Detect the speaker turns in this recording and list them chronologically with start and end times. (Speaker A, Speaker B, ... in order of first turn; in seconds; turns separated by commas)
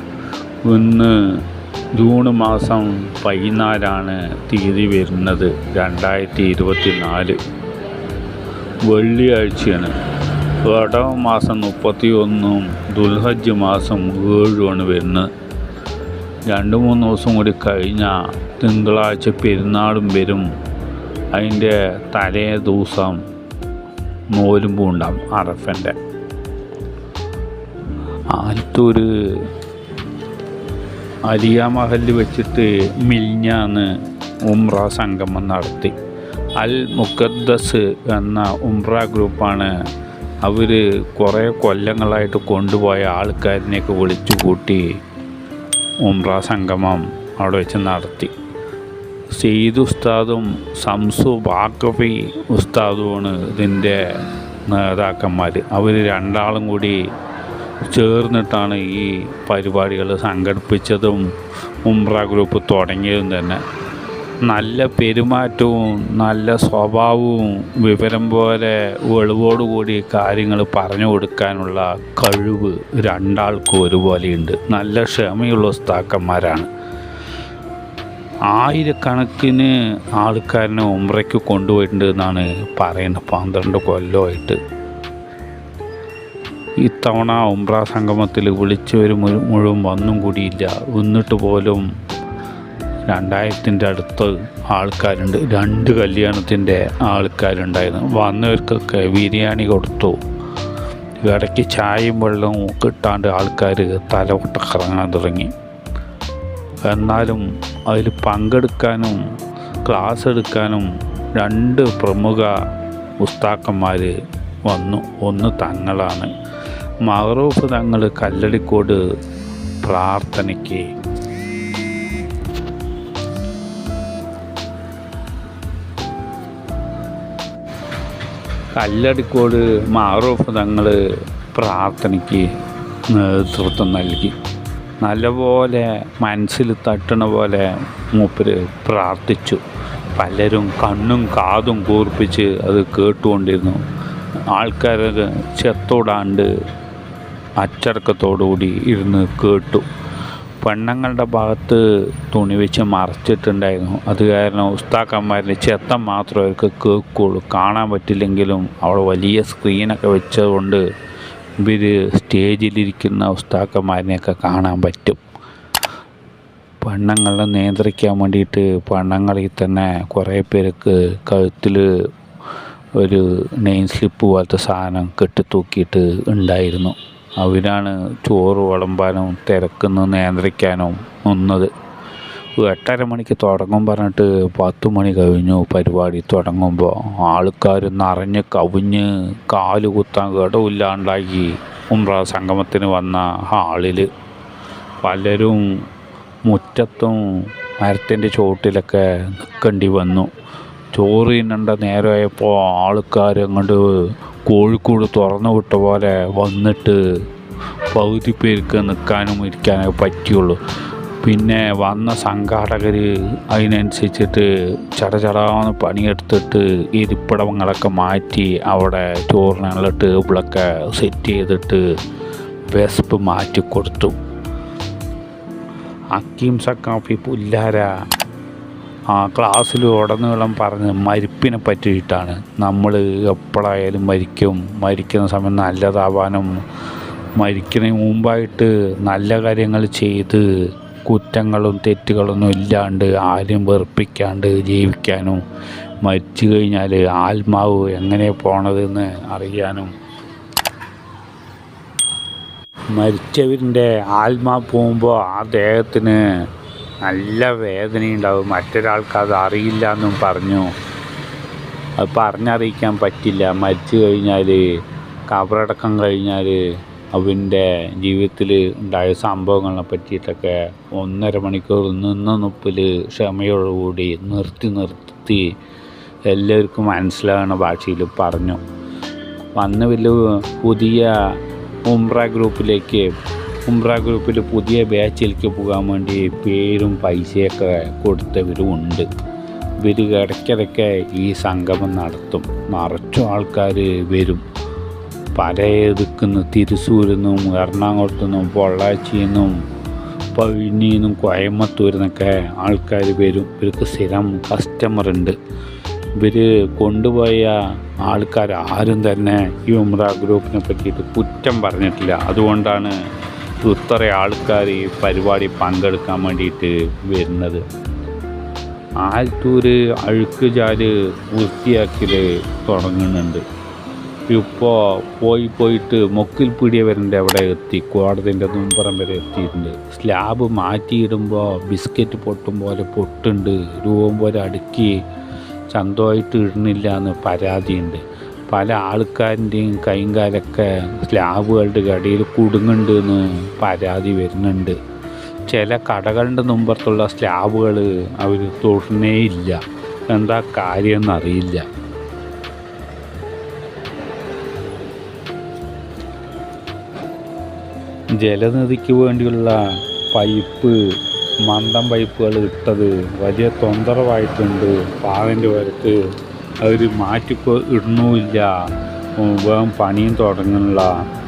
Speaker A: 0.7-1.4, Speaker A: 1.9-7.4, Speaker A: 8.9-9.9, Speaker A: 10.6-15.3, Speaker A: 16.5-20.5, Speaker A: 21.3-23.2, Speaker A: 24.3-25.9, Speaker A: 28.3-29.5, Speaker A: 31.3-33.9, Speaker A: 34.5-35.9, Speaker A: 36.6-39.7, Speaker A: 40.4-44.9, Speaker A: 46.0-48.3, Speaker A: 49.4-54.0, Speaker A: 54.7-57.0, Speaker A: 57.9-61.3, Speaker A: 61.9-63.6, Speaker A: 64.5-76.7, Speaker A: 78.5-84.6, Speaker A: 86.8-91.9, Speaker A: 93.1-100.2, Speaker A: 101.2-105.5, Speaker A: 106.8-109.2, Speaker A: 109.8-112.6, Speaker A: 113.2-114.1, Speaker A: 114.7-116.3, Speaker A: 117.1-119.0, Speaker A: 119.8-120.9, Speaker A: 128.8-131.0, Speaker A: 131.5-132.5, Speaker A: 133.1-134.3, Speaker A: 135.0-139.6, Speaker A: 140.2-143.8, Speaker A: 144.5-146.5, Speaker A: 147.6-149.9, Speaker A: 150.6-160.8, Speaker A: 161.6-165.2, Speaker A: 166.8-171.9, Speaker A: 173.0-181.7, Speaker A: 182.6-194.1, Speaker A: 195.0-195.7, Speaker A: 196.5-197.2, Speaker A: 197.8-200.3, Speaker A: 200.9-203.9, Speaker A: 204.5-207.0, Speaker A: 207.9-210.6, Speaker A: 211.2-221.8, Speaker A: 222.7-224.2, Speaker A: 226.1-227.9, Speaker A: 229.1-236.5, Speaker A: 237.4-240.5, Speaker A: 241.1-245.4, Speaker A: 246.0-249.9, Speaker A: 252.9-256.2, Speaker A: 257.0-260.7, Speaker A: 262.0-264.6, Speaker A: 265.3-266.6, Speaker A: 267.1-275.5, Speaker A: 276.3-278.6, Speaker A: 279.6-281.1, Speaker A: 281.9-283.1, Speaker A: 283.7-289.1, Speaker A: 289.8-294.4, Speaker A: 295.4-299.6, Speaker A: 300.4-305.4, Speaker A: 306.2-312.9, Speaker A: 313.6-317.6, Speaker A: 319.0-323.4, Speaker A: 324.3-335.0, Speaker A: 335.7-344.8, Speaker A: 345.5-351.6, Speaker A: 358.2-360.8, Speaker A: 361.5-366.0, Speaker A: 366.6-368.5, Speaker A: 369.2-370.9